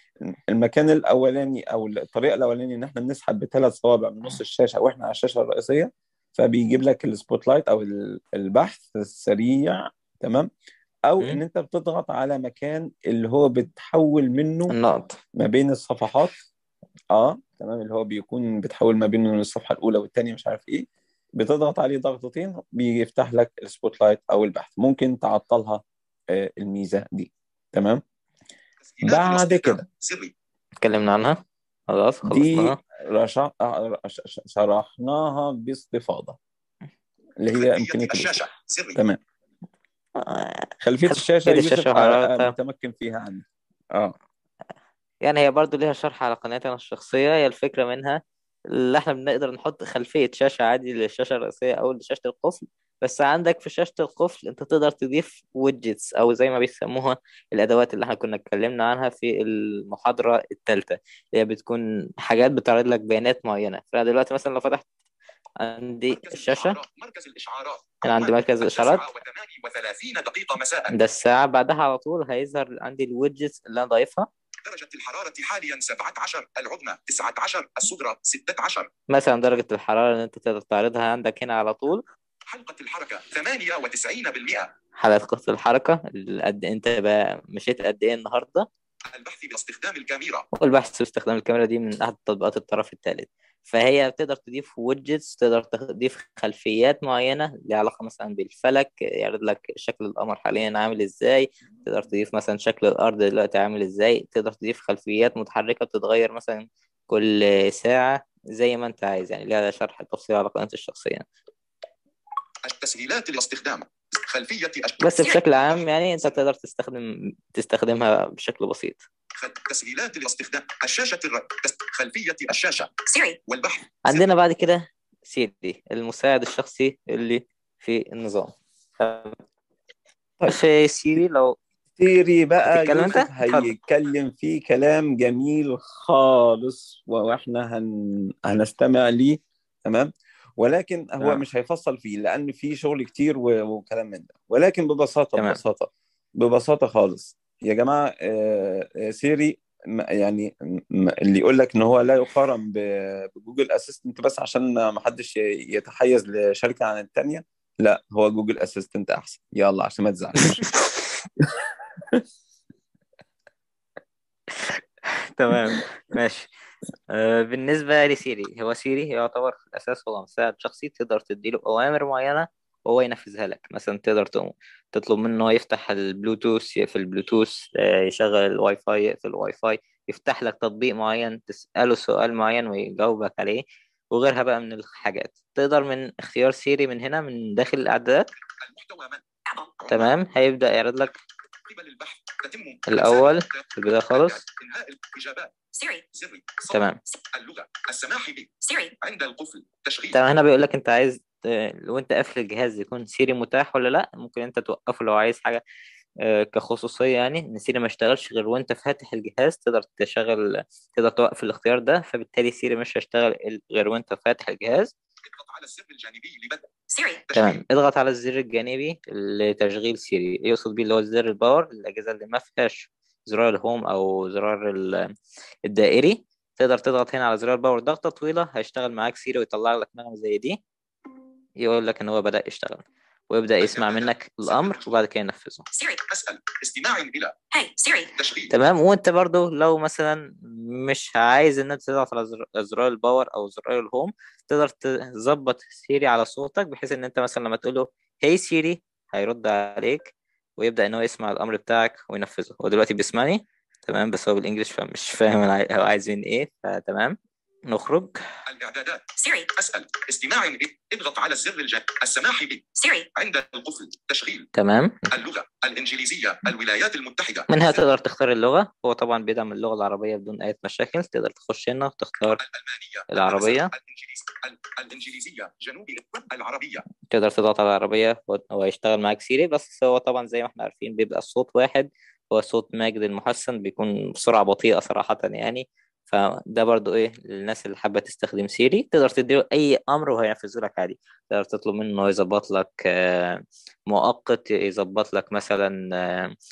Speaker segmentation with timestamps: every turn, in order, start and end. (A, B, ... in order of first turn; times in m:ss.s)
0:00.2-0:10.5 A
0:11.1-0:14.7 A
0:14.7-0:15.2 B
0:15.4-0:16.4 A
0:17.1-0:28.0 A
0:28.8-0:30.3 C
0:29.0-0:29.8 A
0:30.8-0:32.8 B
0:32.3-0:36.4 A
0:37.4-0:38.3 A
0:37.5-0:39.0 C
0:40.2-0:42.5 B
0:40.8-0:44.2 A
0:45.2-0:48.2 B
0:48.7-1:04.8 B
1:05.6-1:06.8 B
1:06.1-1:10.9 C
1:08.0-1:09.1 B
1:10.9-1:14.3 B
1:14.6-1:18.9 C
1:19.1-1:22.0 B
1:22.5-1:24.7 C
1:25.0-1:28.7 B
1:29.1-1:30.5 C
1:30.5-1:51.2 B
1:52.6-1:55.1 C
1:55.0-1:59.0 B
1:59.4-2:02.9 C
2:03.1-2:03.4 D
2:03.5-2:04.3 C
2:04.1-2:09.4 B
2:10.5-2:11.6 B
2:12.0-2:42.2 A
2:12.7-2:13.7 B
2:44.6-2:46.5 B
2:47.1-3:08.3 B
3:08.5-3:09.2 C
3:09.5-3:09.7 D
3:09.8-3:10.2 C
3:09.9-3:11.1 B
3:11.7-3:15.5 C
3:12.9-3:14.4 B
3:15.7-3:16.0 D
3:16.1-3:20.2 C
3:16.7-3:17.0 B
3:18.6-3:19.0 D
3:20.1-3:25.6 B
3:26.2-3:34.9 B
3:35.2-3:36.7 C
3:36.9-3:37.2 D
3:37.3-3:37.6 C
3:37.3-3:45.1 B
3:45.7-3:50.6 B
3:51.6-3:55.7 B
3:53.6-3:55.0 C
3:55.7-3:56.0 D
3:56.1-3:57.4 C
3:57.5-3:58.1 D
3:58.2-3:58.5 C
3:58.5-4:17.2 B
4:17.7-4:18.1 B
4:18.5-4:24.5 C
4:19.2-4:19.5 D
4:22.8-4:23.1 D
4:24.6-4:25.0 B
4:25.1-4:27.8 C
4:27.5-4:32.4 B
4:32.3-4:36.8 C
4:33.1-4:33.7 B
4:37.1-4:56.3 B